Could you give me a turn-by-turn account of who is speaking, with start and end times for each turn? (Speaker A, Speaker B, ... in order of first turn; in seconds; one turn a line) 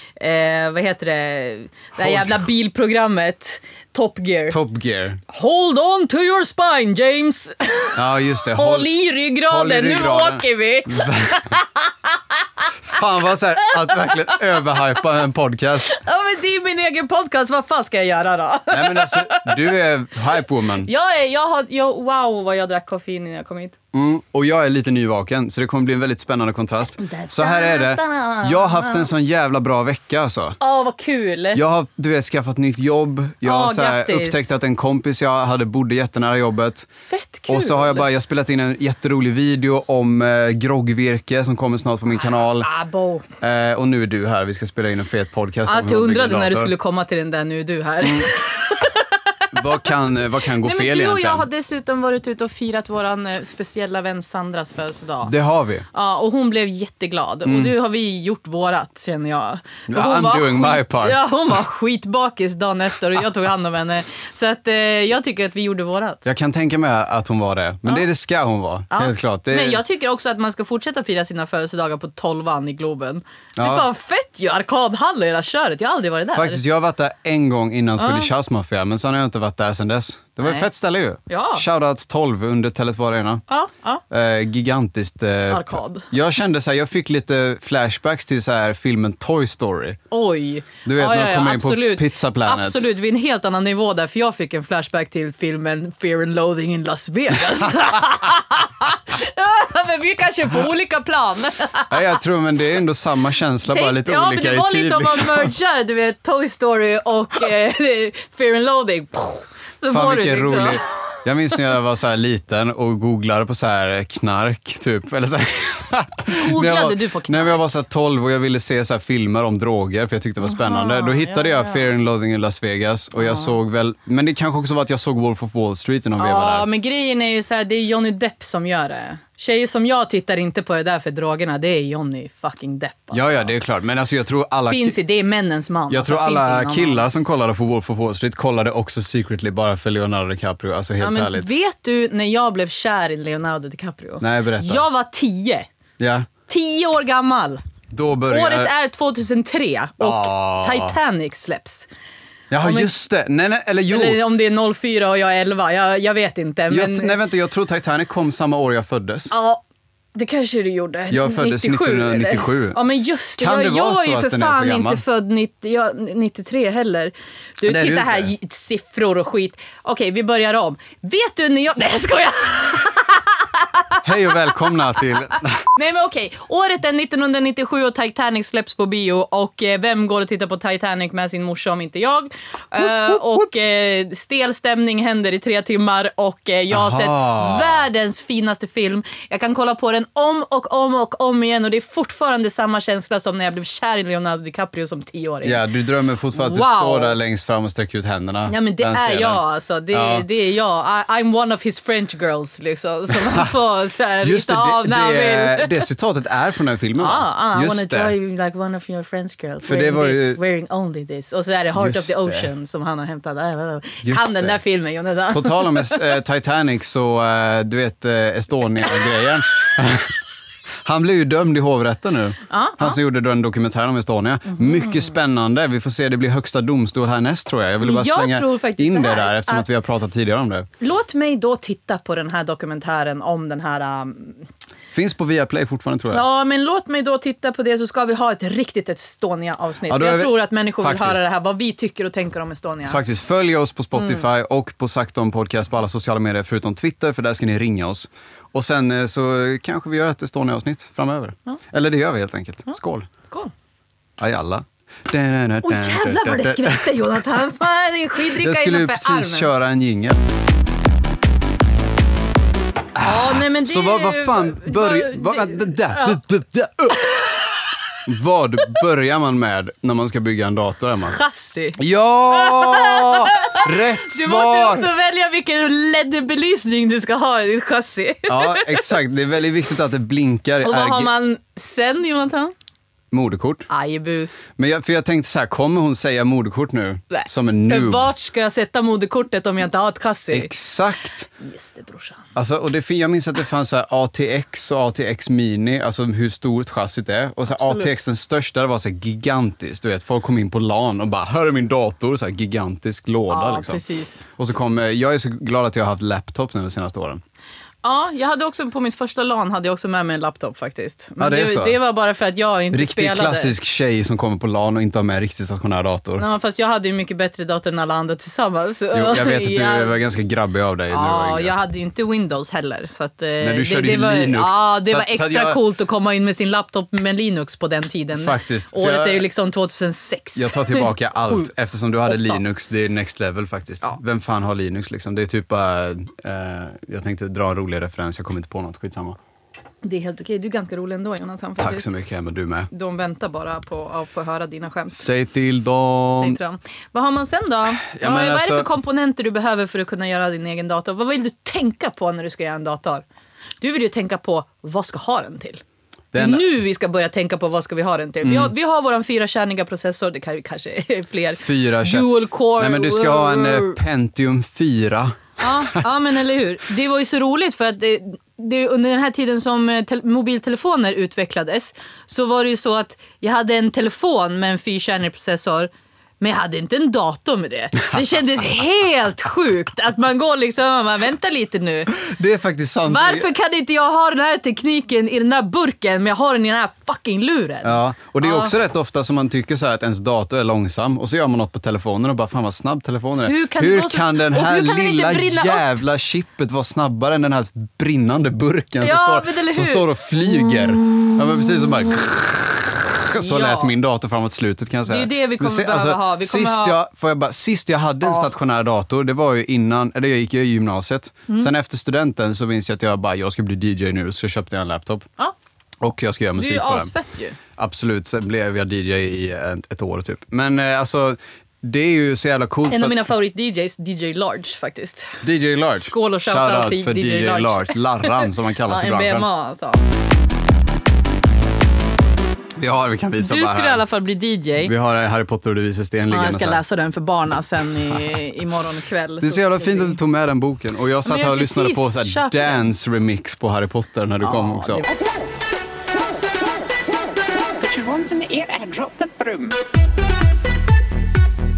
Speaker A: 0.2-4.6
Speaker B: 2.0-2.4
Speaker B: 4.5-5.2
Speaker A: 5.3-8.0
Speaker B: 8.0-8.9
Speaker A: 8.5-12.7
Speaker B: 9.5-11.5
Speaker B: 12.8-16.0
Speaker A: 15.9-19.6
Speaker B: 18.7-20.9
Speaker A: 20.8-23.8
Speaker B: 23.9-30.6
Speaker A: 27.0-29.1
Speaker A: 30.6-31.6
Speaker B: 31.5-36.9
Speaker A: 33.4-34.4
Speaker A: 37.0-38.1
Speaker B: 37.5-42.7
Speaker A: 42.6-43.2
Speaker B: 43.4-46.7
Speaker A: 45.7-49.6
Speaker B: 48.0-48.3
Speaker B: 49.5-51.5
Speaker A: 50.5-55.3
Speaker B: 55.2-55.9
Speaker A: 55.9-66.2
Speaker B: 57.5-57.7
Speaker B: 59.9-61.2
Speaker B: 66.2-69.8
Speaker A: 68.9-76.6
Speaker B: 73.6-73.8
Speaker B: 76.3-83.4
Speaker A: 78.0-78.3
Speaker A: 81.3-81.7
Speaker A: 83.5-84.0
Speaker B: 84.1-90.0
Speaker A: 85.5-86.1
Speaker A: 90.1-102.2
Speaker B: 90.8-92.8
Speaker B: 101.9-105.5
Speaker A: 103.7-110.8
Speaker B: 109.9-126.7
Speaker A: 116.3-117.6
Speaker A: 120.4-121.9
Speaker A: 123.2-123.5
Speaker A: 126.2-133.5
Speaker B: 133.1-135.0
Speaker A: 134.7-137.1
Speaker B: 135.9-141.5
Speaker A: 141.0-145.7
Speaker B: 144.2-144.8
Speaker B: 146.0-146.3
Speaker A: 146.5-147.6
Speaker B: 147.9-148.7
Speaker A: 148.3-151.9
Speaker B: 150.0-151.0
Speaker B: 152.5-154.2
Speaker A: 152.6-152.9
Speaker A: 153.9-157.2
Speaker B: 156.7-159.3
Speaker A: 159.3-159.6
Speaker A: 160.2-174.0
Speaker B: 161.1-162.8
Speaker B: 163.4-165.0
Speaker B: 167.6-168.3
Speaker B: 174.0-175.7
Speaker A: 175.7-195.6
Speaker B: 186.7-187.8
Speaker B: 195.4-200.2
Speaker A: 196.3-197.2
Speaker A: 198.5-205.9
Speaker B: 204.2-208.1
Speaker A: 207.0-216.2
Speaker B: 209.6-210.4
Speaker B: 211.8-212.5
Speaker B: 214.0-214.6
Speaker B: 215.3-220.1
Speaker B: 220.8-230.7
Speaker A: 222.5-223.0
Speaker A: 224.6-224.9
Speaker A: 227.8-229.7
Speaker A: 230.8-234.4
Speaker B: 234.9-236.2
Speaker A: 236.1-243.0
Speaker B: 239.9-241.2
Speaker B: 242.9-253.1
Speaker A: 244.0-244.2
Speaker A: 253.3-253.5
Speaker B: 254.2-256.9
Speaker A: 255.6-259.5
Speaker B: 258.3-260.2
Speaker B: 262.9-267.1
Speaker A: 263.0-266.2
Speaker A: 267.0-267.6
Speaker B: 268.1-271.2
Speaker A: 271.1-271.8
Speaker B: 271.8-274.9
Speaker A: 272.3-278.9
Speaker B: 278.3-281.1
Speaker A: 280.6-282.5
Speaker B: 283.1-283.7
Speaker A: 283.7-284.5
Speaker B: 284.6-288.1
Speaker A: 287.1-290.5
Speaker B: 290.3-291.3
Speaker A: 291.4-292.2
Speaker B: 292.3-303.8
Speaker A: 297.5-297.9
Speaker A: 303.3-304.2
Speaker B: 304.4-307.2
Speaker A: 307.8-313.5
Speaker B: 311.2-311.8
Speaker B: 312.7-316.2
Speaker A: 316.2-319.9
Speaker B: 318.9-321.5
Speaker A: 320.9-331.5
Speaker B: 323.4-325.6
Speaker B: 328.1-329.2
Speaker B: 330.4-339.2
Speaker A: 332.1-332.4
Speaker A: 339.8-341.9
Speaker B: 341.6-342.7
Speaker A: 342.7-345.1
Speaker B: 344.9-346.4
Speaker A: 346.2-353.1
Speaker B: 347.9-348.7
Speaker A: 353.6-355.6
Speaker B: 356.1-356.5
Speaker A: 356.1-363.8
Speaker B: 358.2-358.5
Speaker B: 361.4-365.8
Speaker A: 365.4-381.9
Speaker B: 382.0-383.3
Speaker A: 382.9-388.5
Speaker B: 387.6-415.1
Speaker A: 393.2-395.6
Speaker A: 398.8-399.9
Speaker A: 403.2-403.7
Speaker A: 404.9-406.8
Speaker A: 408.0-408.3
Speaker B: 415.8-416.9
Speaker A: 416.4-417.4
Speaker B: 417.6-423.1
Speaker A: 422.7-425.2
Speaker B: 425.2-429.3
Speaker A: 425.8-429.8
Speaker B: 432.6-433.9
Speaker A: 433.2-434.7
Speaker B: 434.6-436.6
Speaker A: 436.1-440.0
Speaker B: 439.2-444.9
Speaker A: 441.0-442.6
Speaker A: 444.2-444.9
Speaker C: 444.9-445.3
Speaker C: 446.0-449.6